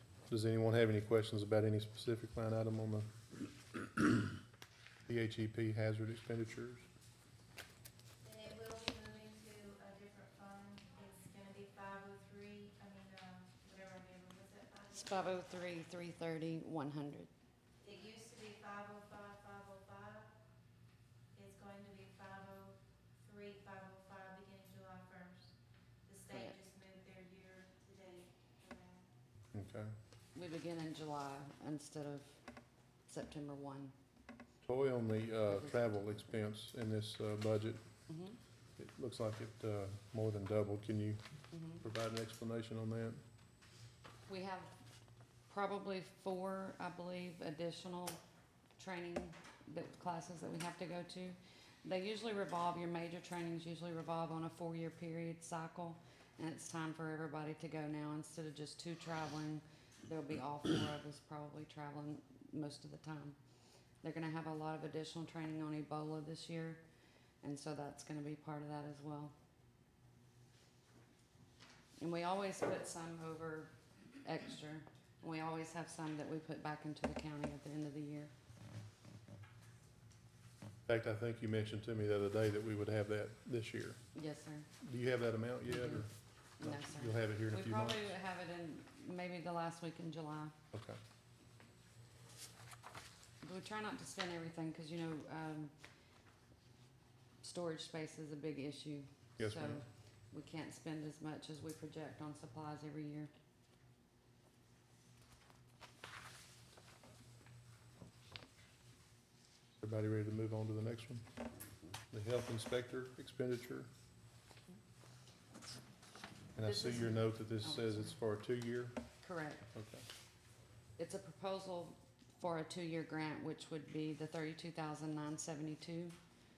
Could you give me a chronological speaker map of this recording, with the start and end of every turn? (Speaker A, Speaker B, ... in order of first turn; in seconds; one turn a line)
Speaker A: 0.3-3.1
Speaker A: 5.1-6.9
Speaker B: 8.2-15.3
Speaker C: 14.9-17.3
Speaker B: 17.8-20.3
Speaker B: 21.3-25.5
Speaker B: 26.1-29.1
Speaker C: 26.3-26.6
Speaker A: 29.5-29.9
Speaker C: 30.4-32.4
Speaker C: 33.1-33.9
Speaker A: 34.6-37.8
Speaker C: 35.5-36.4
Speaker C: 38.1-38.4
Speaker A: 38.8-41.2
Speaker C: 41.5-41.8
Speaker A: 41.8-43.2
Speaker C: 44.3-44.7
Speaker C: 45.5-48.2
Speaker C: 48.8-63.4
Speaker C: 64.0-66.8
Speaker C: 67.4-69.3
Speaker C: 72.0-73.7
Speaker C: 74.2-78.3
Speaker A: 80.9-84.0
Speaker C: 84.2-84.7
Speaker A: 84.8-86.1
Speaker C: 85.7-86.0
Speaker C: 86.6-90.5
Speaker A: 86.6-88.1
Speaker A: 90.7-91.0
Speaker C: 93.4-95.7
Speaker C: 97.4-103.3
Speaker A: 99.4-99.8
Speaker A: 109.8-111.2
Speaker A: 112.1-113.9
Speaker A: 116.6-119.0
Speaker C: 116.6-118.1
Speaker C: 119.2-119.7
Speaker A: 119.7-120.0
Speaker C: 121.0-126.2